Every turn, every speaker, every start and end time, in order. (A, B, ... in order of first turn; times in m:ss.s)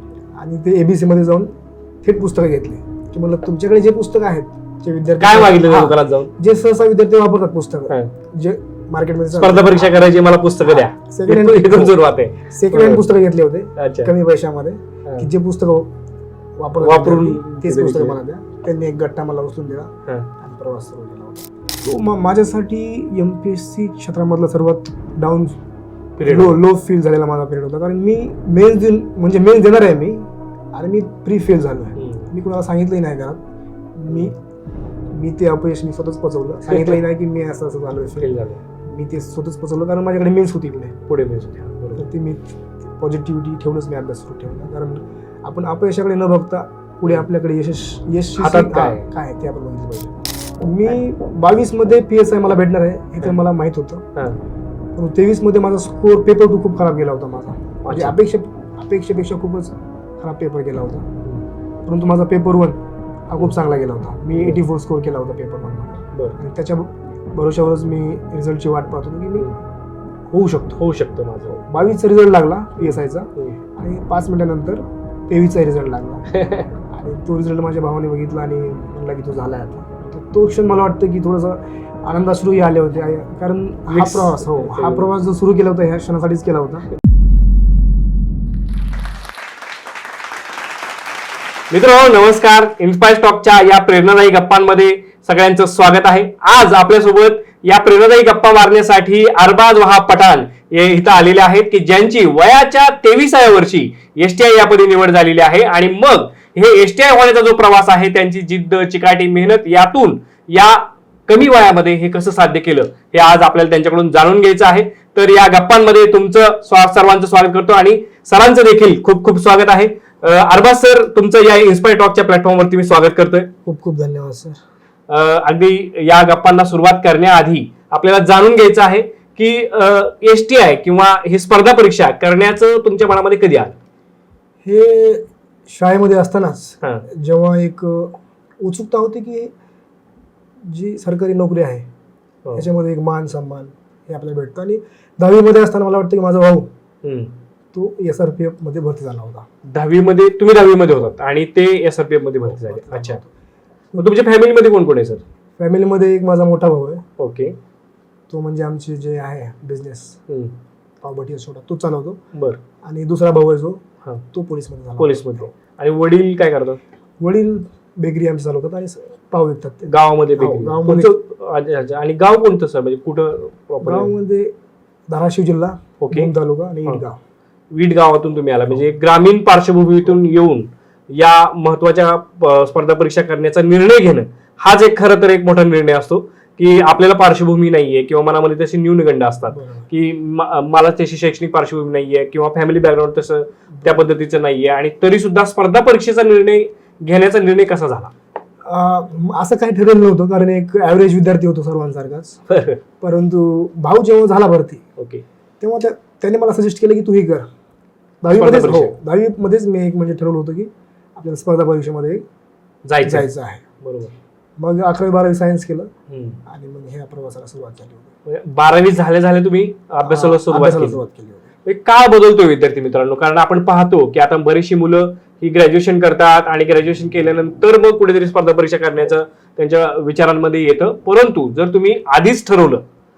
0:00.4-0:01.5 A
0:02.0-0:10.0 A
0:05.2-0:06.3 B
0:09.3-0:13.1 B
0:10.6-0:15.9 A
0:13.8-0:14.1 B
0:16.6-0:25.6 A
0:16.8-0:18.2 B
0:26.2-0:26.6 B
0:26.2-0:33.4 A
0:32.0-0:32.3 B
0:33.9-0:34.4 A
0:34.1-0:34.3 B
0:35.1-0:38.3 A
0:36.6-0:37.0 B
0:38.2-0:38.6 B
0:38.8-0:41.0 A
0:41.1-0:42.0 B
0:41.9-0:54.0 A
0:48.4-0:49.0 B
0:54.2-0:54.4 B
0:55.0-1:01.1 A
0:57.8-0:58.2 B
1:01.8-1:09.5 A
1:10.3-1:10.8 A
1:10.8-1:11.6 B
1:11.6-1:26.8 A
1:16.3-1:16.7 B
1:23.9-1:25.1 B
1:31.7-2:03.5 B
2:03.6-2:04.6 A
2:05.1-2:13.8 B
2:14.6-2:19.5 A
2:20.6-2:21.8 A
2:22.5-2:26.7 A
2:27.0-2:27.3 B
2:27.7-2:29.5 A
2:29.6-2:33.2 B
2:32.5-2:33.3 A
2:34.0-2:35.2 B
2:35.6-2:37.0 A
2:37.2-2:37.6 B
2:38.3-2:40.2 A
2:40.3-2:40.6 B
2:41.0-2:42.2 A
2:42.3-2:42.6 B
2:42.8-2:45.5 A
2:45.0-2:46.8 B
2:47.2-2:51.1 A
2:49.9-2:54.1 B
2:53.8-2:54.5 A
2:55.1-2:57.2 A
2:56.0-2:56.3 B
2:57.7-3:18.1 B
3:09.5-3:09.8 A
3:18.6-3:22.4 A
3:22.5-3:22.8 B
3:23.0-3:24.8 A
3:25.0-3:25.2 B
3:25.6-3:27.5 A
3:28.2-3:32.2 A
3:28.3-3:29.0 B
3:32.8-3:33.3 B
3:33.0-3:33.6 A
3:33.8-3:34.1 B
3:34.6-3:35.9 A
3:36.1-3:36.4 B
3:36.4-3:38.1 A
3:38.2-3:41.0 B
3:40.0-3:41.5 A
3:41.6-3:52.8 B